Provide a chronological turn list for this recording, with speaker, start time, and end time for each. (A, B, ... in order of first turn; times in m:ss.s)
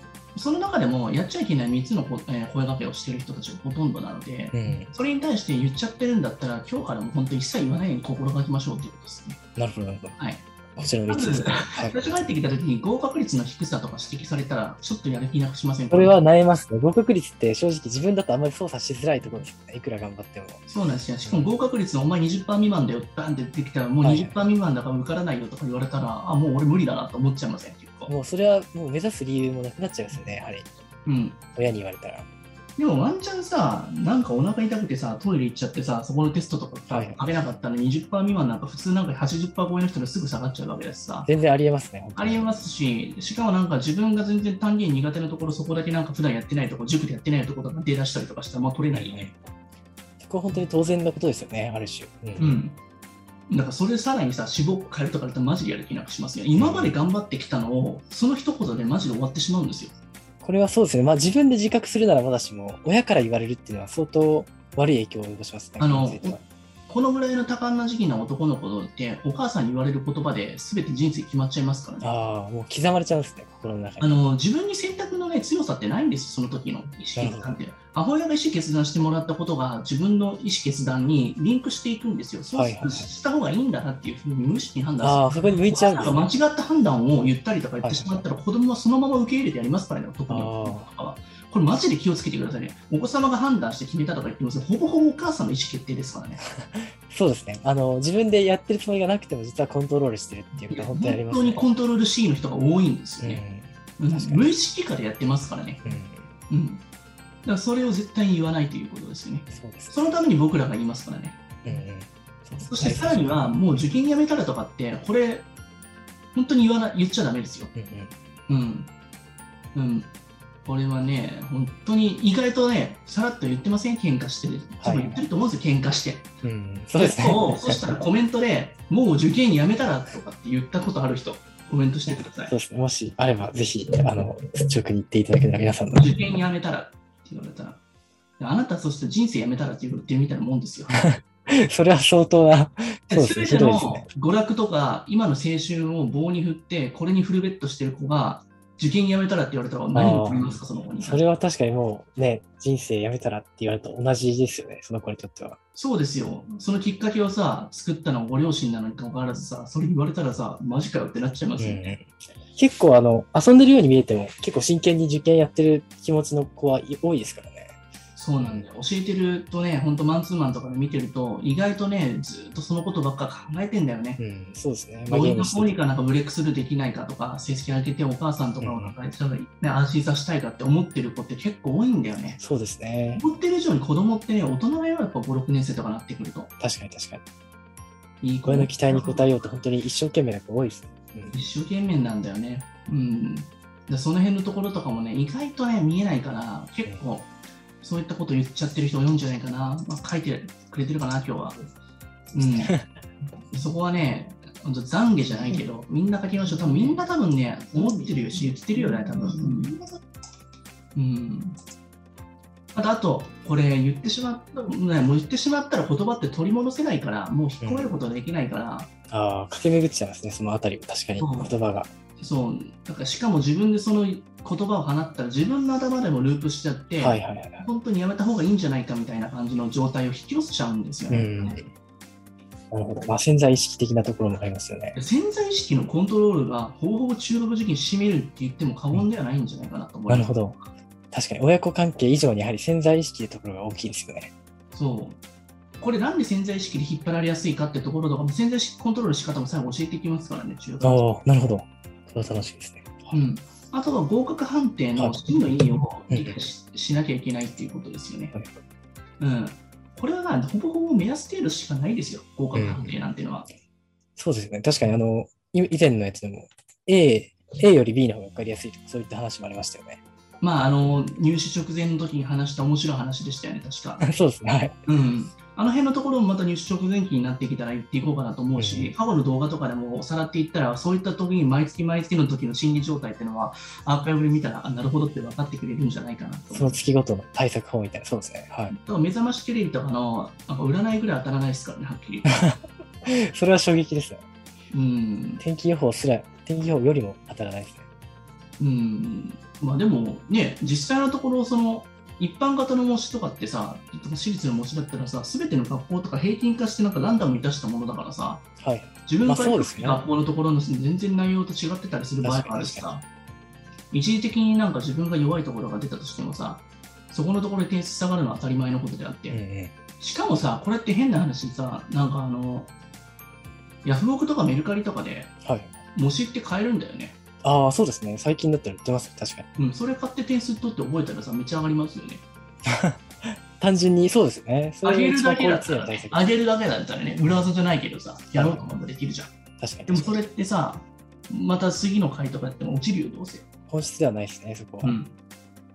0:00.3-0:09.4 A
0:04.5-0:04.9 B
0:09.6-0:10.2 B
0:10.2-0:10.4 A
0:10.8-0:12.0 B
0:11.1-0:16.1 A
0:15.9-0:20.6 B
0:20.7-0:28.1 A
0:21.2-0:21.5 B
0:24.0-0:24.4 B
0:28.1-0:30.7 B
0:31.1-0:31.4 A
0:31.5-0:32.2 B
0:32.8-0:41.3 A
0:36.9-0:37.3 B
0:41.2-0:42.5 B
0:42.2-0:49.3 A
0:48.9-0:49.3 B
0:50.2-0:52.6 B
0:52.4-0:52.8 A
0:53.5-0:59.9 A
0:56.5-0:57.0 B
1:00.4-1:06.4 B
1:05.8-1:12.1 A
1:12.0-1:14.2 B
1:14.0-1:36.4 A
1:17.2-1:17.6 B
1:22.5-1:23.1 B
1:25.0-1:26.3 B
1:27.8-1:28.2 B
1:30.3-1:30.9 B
1:36.5-1:41.7 B
1:40.7-1:43.4 A
1:43.2-1:44.5 B
1:44.0-1:45.8 A
1:45.8-1:46.3 B
1:46.5-1:46.8 A
1:47.4-1:51.4 A
1:49.5-1:50.0 B
1:51.6-1:53.5 B
1:52.7-1:55.5 A
1:56.3-1:57.7 A
1:57.7-1:58.1 B
1:58.5-1:58.9 A
1:59.7-2:00.1 A
2:00.6-2:06.3 A
2:04.8-2:05.2 B
2:06.4-2:07.9 B
2:07.0-2:12.5 A
2:12.1-2:16.2 B
2:16.0-2:17.8 A
2:18.4-2:21.0 A
2:20.9-2:24.1 B
2:23.1-2:31.2 A
2:29.9-2:35.6 B
2:35.8-2:41.8 A
2:41.6-2:47.8 B
2:48.2-2:54.2 A
2:48.4-2:48.7 B
2:54.2-2:55.8 B
2:55.1-3:02.4 A
2:58.6-2:59.0 B
3:02.4-3:03.2 B
3:03.2-3:06.5 A
3:06.6-3:07.2 B
3:08.2-3:09.5 A
3:08.5-3:11.4 B
3:11.3-3:17.3 A
3:17.8-3:21.6 A
3:22.3-3:22.7 A
3:22.4-3:22.8 B
3:23.5-3:29.8 A
3:31.0-3:31.6 A
3:32.7-3:38.9 A
3:37.6-3:37.9 B
3:39.1-3:41.9 B
3:41.2-3:41.5 A
3:42.2-3:51.6 A
3:47.0-3:47.7 B
3:51.1-3:51.7 B
3:52.7-3:55.0 B
3:54.9-4:00.4 A
4:00.1-4:00.6 B
4:01.1-4:04.3 B
4:04.7-4:05.2 A
4:05.8-4:11.0 A
4:10.8-4:13.2 B
4:13.1-4:18.3 A
4:15.0-4:15.3 B
4:16.1-4:16.4 B
4:19.2-4:23.5 A
4:22.5-4:23.0 B
4:24.2-4:30.0 B
4:30.4-4:34.0 A
4:34.0-4:34.8 B
4:34.9-4:46.8 A
4:38.6-4:38.9 B
4:46.5-4:48.8 B
4:48.7-4:52.3 A
4:52.2-4:54.2 B
4:54.7-4:55.4 A
4:55.4-4:57.8 B
4:58.6-5:08.5 A
5:08.6-5:10.0 B
5:09.0-5:13.0 A
5:12.2-5:12.9 B
5:13.9-5:19.4 A
5:19.3-5:19.7 B
5:20.0-5:22.7 A
5:23.8-5:25.3 A
5:25.4-5:25.8 B
5:25.9-5:27.2 A
5:27.4-5:29.5 B
5:29.6-5:32.2 A
5:32.6-5:36.2 B
5:34.8-5:39.3 A
5:38.4-5:38.7 B
5:39.6-5:40.2 B
5:39.9-5:43.5 A
5:43.7-5:45.0 B
5:44.8-5:45.1 A